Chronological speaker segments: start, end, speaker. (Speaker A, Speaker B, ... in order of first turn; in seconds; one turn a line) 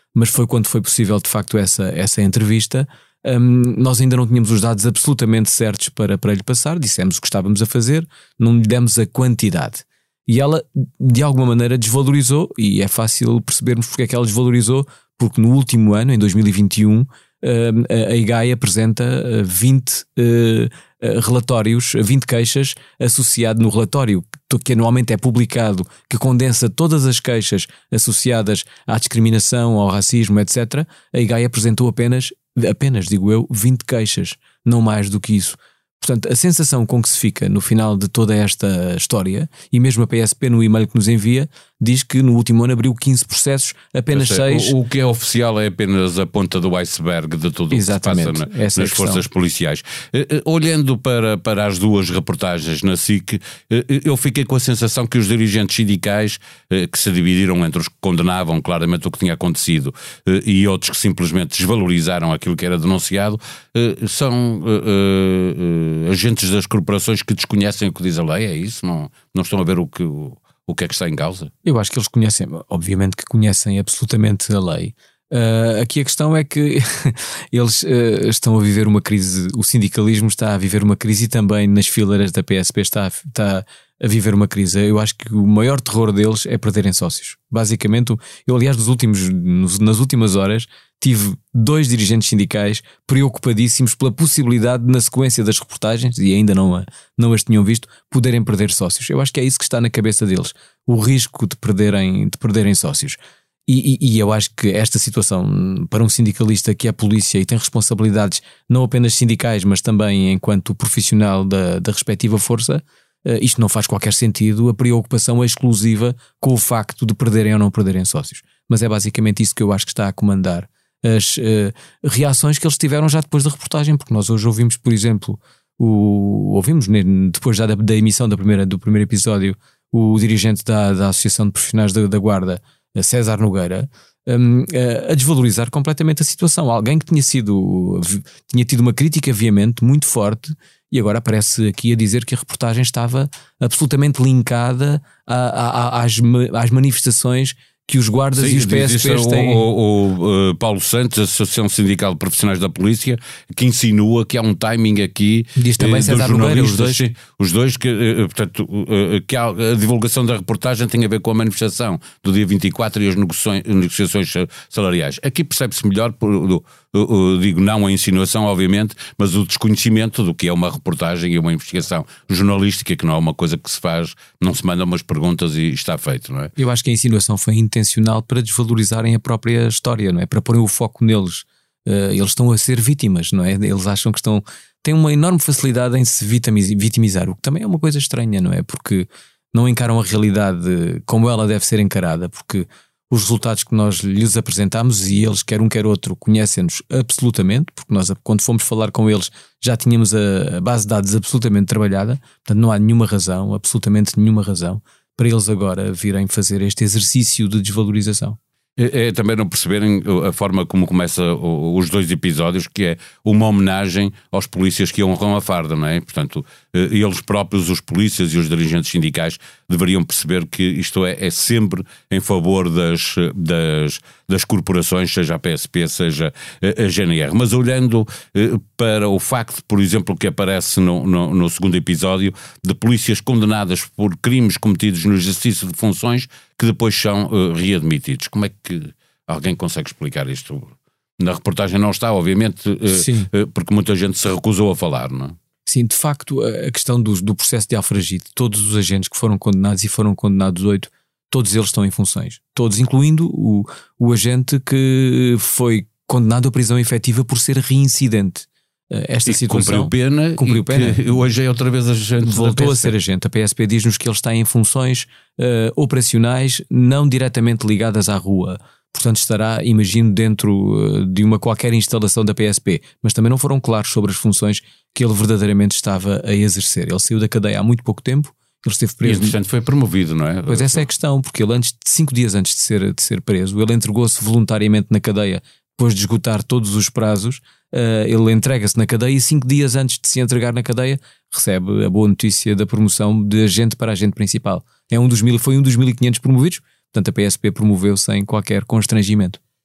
Speaker A: 0.1-44.7
Speaker B: 44.1-71.5
Speaker A: 47.7-49.2
Speaker A: 71.6-149.7
Speaker B: 148.3-176.5
Speaker A: 155.6-157.1
Speaker A: 176.6-208.4
Speaker B: 208.8-245.3
Speaker A: 242.9-243.3
Speaker A: 245.7-261.2
Speaker B: 259.3-262.9
Speaker A: 262.2-279.4
Speaker B: 279.0-280.9
Speaker A: 280.5-299.4